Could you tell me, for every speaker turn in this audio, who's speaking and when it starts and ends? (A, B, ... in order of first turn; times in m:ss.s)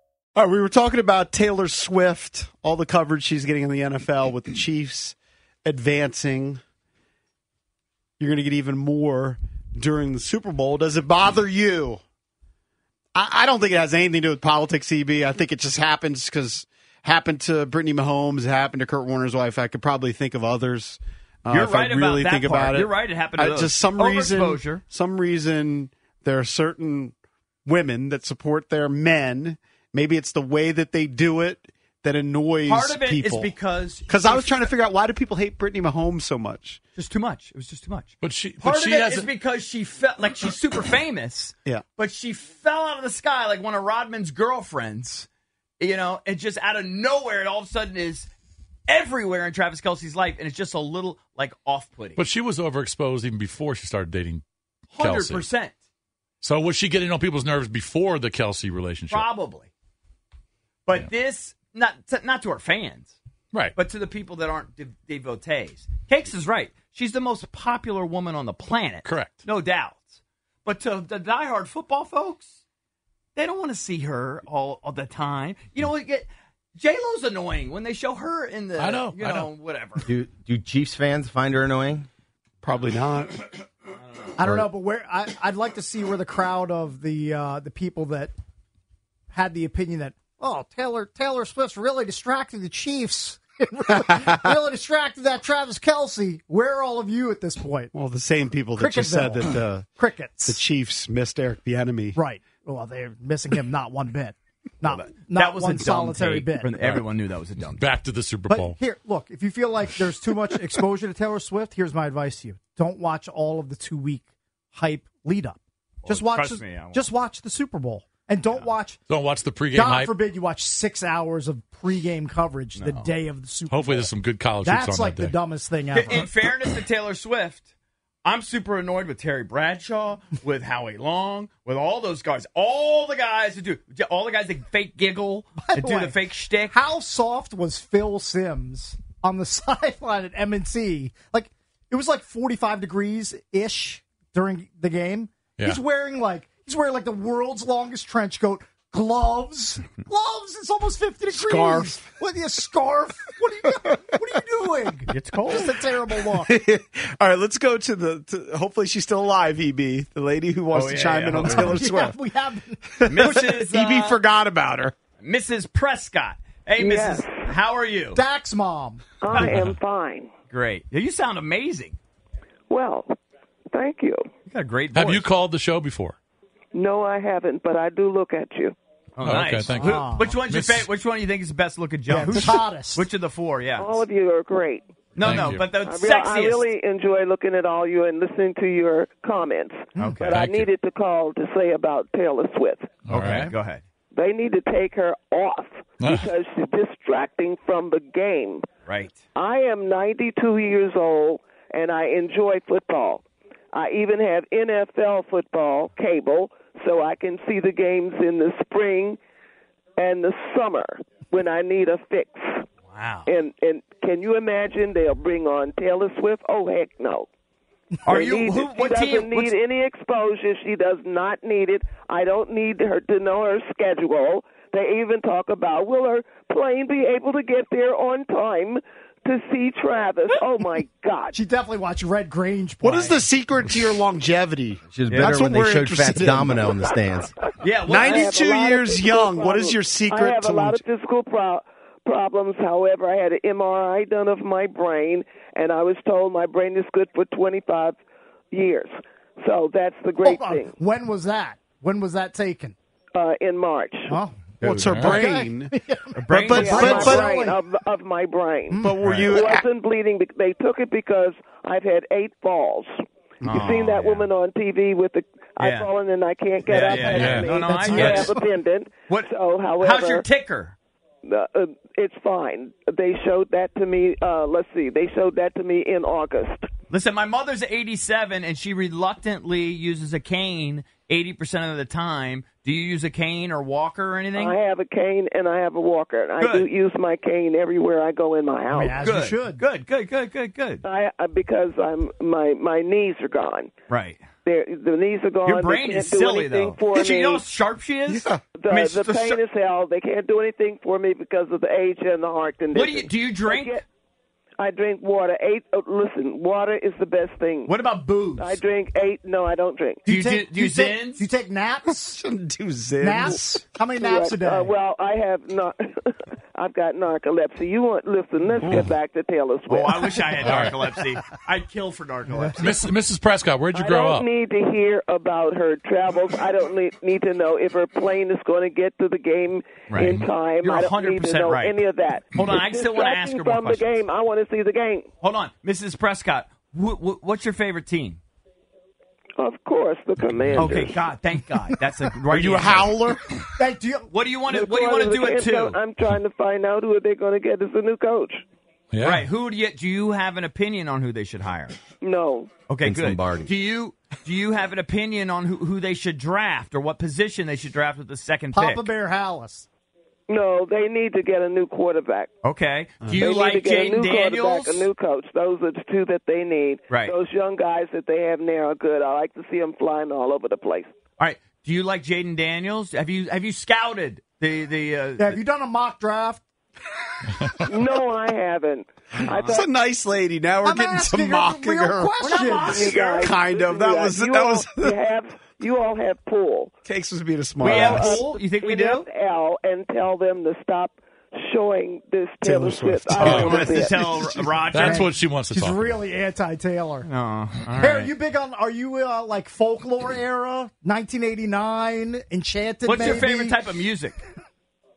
0:00.4-0:06.6 A
0:08.2-0:12.0 A
0:13.1-0:27.2 A
0:21.5-0:24.8 B
0:27.7-0:33.5 A
0:32.7-0:34.7 B
0:34.1-0:36.8 A
0:37.0-0:45.3 B
0:38.2-0:39.3 C
0:45.8-0:48.3 B
0:48.9-0:52.2 B
0:52.2-0:54.4 C
0:54.9-0:55.8 B
0:55.0-0:55.5 C
0:56.4-0:59.3 C
0:59.1-0:59.7 B
1:00.9-1:03.2 B
1:03.5-1:03.8 C
1:03.8-1:12.6 B
1:09.0-1:09.4 C
1:13.4-1:20.1 B
1:18.8-1:19.5 C
1:20.0-1:22.1 D
1:22.6-1:23.4 A
1:24.4-1:28.3 E
1:29.3-1:37.9 E
1:34.0-1:34.4 A
1:37.9-1:39.9 A
1:38.8-1:40.6 E
1:40.4-1:42.2 A
1:42.2-1:46.7 E
1:44.9-1:47.8 B
1:46.8-1:47.1 C
1:47.7-1:48.8 C
1:48.5-1:59.0 E
1:56.0-1:57.0 B
1:59.1-2:00.1 C
1:59.7-2:04.1 E
2:02.8-2:03.1 B
2:03.7-2:05.4 C
2:04.6-2:06.3 E
2:05.9-2:07.7 B
2:08.2-2:16.8 B
2:15.6-2:16.2 E
2:16.7-2:36.5 E
2:31.3-2:32.0 A
2:35.1-2:35.7 B
2:36.2-2:42.2 A
2:40.7-2:41.8 B
2:41.4-2:42.8 E
2:43.0-2:45.0 A
2:43.1-2:44.2 B
2:45.2-2:48.2 B
2:46.8-2:47.4 F
2:48.2-2:49.0 E
2:49.2-2:50.3 F
2:49.4-2:49.8 C
2:50.5-2:52.0 B
2:52.7-2:53.1 F
2:53.7-2:54.2 F
2:54.5-2:55.3 B
2:54.9-2:56.2 C
2:56.7-2:58.8 F
2:59.2-3:04.0 B
2:59.2-3:00.9 C
2:59.8-3:00.3 E
3:02.1-3:03.1 E
3:03.8-3:04.8 F
3:05.2-3:06.7 B
3:05.2-3:05.7 C
3:05.8-3:12.9 F
3:10.0-3:10.2 E
3:10.2-3:10.7 C
3:13.1-3:13.6 C
3:13.1-3:13.8 B
3:14.1-3:18.7 F
3:16.0-3:16.3 C
3:18.9-3:19.2 B
3:19.4-3:29.2 F
3:30.0-3:32.6 F
3:32.9-3:33.3 B
3:33.3-3:37.3 F
3:38.0-3:39.5 B
3:38.1-3:51.4 F
3:51.3-3:53.2 E
3:52.8-3:57.0 A
3:54.9-3:57.3 D
3:55.1-3:55.5 B
3:57.6-3:58.4 B
3:57.9-4:00.8 A
3:57.9-4:08.0 F
4:08.5-4:10.7 F
4:10.2-4:12.8 E
4:13.1-4:14.1 F
4:14.1-4:14.4 E
4:14.6-4:15.7 A
4:14.9-4:15.2 C
4:14.9-4:17.6 E
4:16.2-4:17.2 B
4:16.3-4:17.3 A
4:16.5-4:22.9 F
4:18.7-4:19.0 E
4:18.8-4:19.7 A
4:19.0-4:19.3 B
4:23.4-4:24.3 B
4:23.5-4:30.2 F
4:25.6-4:25.9 B
4:26.7-4:28.4 B
4:26.9-4:28.2 C
4:27.6-4:28.3 E
4:29.1-4:30.8 B
4:31.2-4:36.7 F
4:36.9-4:44.6 B
4:44.4-4:49.0 F
4:46.4-4:46.7 B
4:48.7-4:49.6 E
4:48.9-4:50.8 B
4:50.8-4:53.7 F
4:53.9-4:54.2 B
4:54.4-4:57.4 F
4:55.5-4:59.4 B
4:58.1-4:58.4 A
4:58.6-5:03.8 F
5:02.7-5:03.8 B
5:04.6-5:07.7 F
5:07.7-5:08.6 B
5:08.4-5:10.0 F
5:10.0-5:11.3 B
5:10.0-5:12.2 E
5:12.0-5:13.4 A
5:13.0-5:14.7 E
5:14.0-5:20.6 F
5:19.7-5:22.9 B
5:20.4-5:20.8 C
5:22.6-5:24.3 C
5:23.7-5:35.1 F
5:29.9-5:33.9 B
5:35.2-5:38.2 B
5:39.4-5:41.0 F
5:40.6-5:43.0 B
5:42.3-5:43.2 A
5:43.6-5:44.1 E
5:44.1-5:45.8 B
5:44.5-5:48.4 F
5:48.9-5:49.3 C
5:49.0-5:51.8 B
5:52.0-5:52.5 F
5:52.7-5:58.8 B
5:52.8-5:53.5 D
5:58.5-5:59.7 E
6:00.3-6:02.3 F
6:02.4-6:04.9 B
6:03.0-6:03.3 A
6:03.2-6:10.9 F
6:06.9-6:07.1 B
6:11.2-6:15.4 B
6:15.2-6:16.4 E
6:17.4-6:17.7 C
6:17.7-6:19.7 F
6:19.2-6:19.6 B
6:19.4-6:25.0 A
6:20.6-6:22.9 E
6:22.2-6:23.4 B
6:22.6-6:26.7 F
6:26.8-6:28.2 A
6:27.6-6:29.1 B
6:27.6-6:34.0 F
6:32.4-6:34.6 A
6:33.2-6:35.1 B
6:33.2-6:33.6 C
6:34.7-6:36.0 C
6:34.8-6:37.1 E
6:37.0-6:38.1 B
6:37.8-6:43.6 E
6:42.8-6:44.2 B